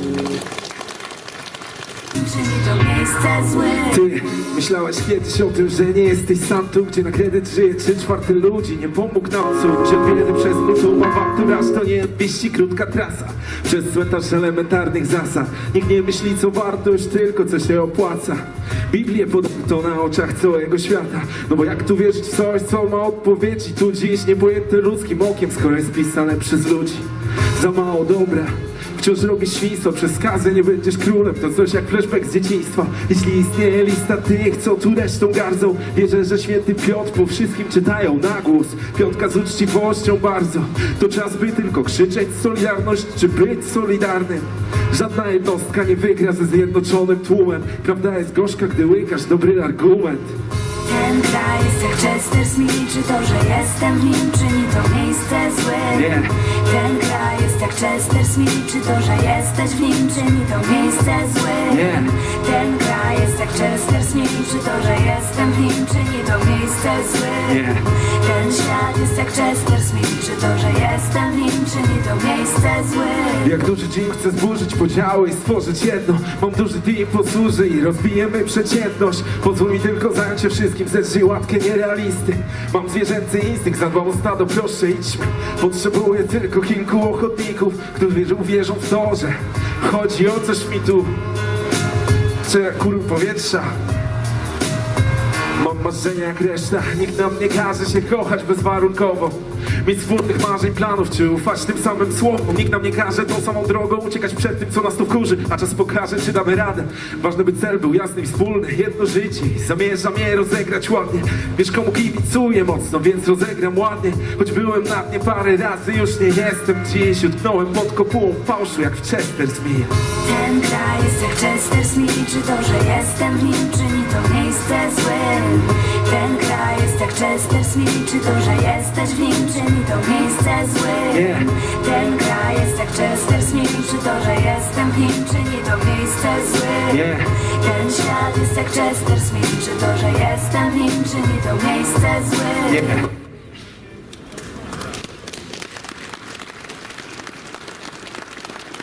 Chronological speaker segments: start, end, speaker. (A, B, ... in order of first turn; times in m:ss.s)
0:02.4-0:03.8 A
0:03.8-0:50.3 B
0:50.9-0:55.9 A
0:55.8-0:56.3 B
0:56.7-1:01.8 A
1:01.7-1:02.3 B
1:02.3-1:07.4 A
1:07.4-1:07.8 B
1:08.2-1:13.4 A
1:13.4-1:31.1 B
1:32.4-1:33.7 B
1:35.6-1:59.9 B
2:00.2-2:16.9 A
2:11.1-2:11.5 B
2:16.9-2:17.4 B
2:17.7-2:22.6 A
2:22.6-2:23.1 B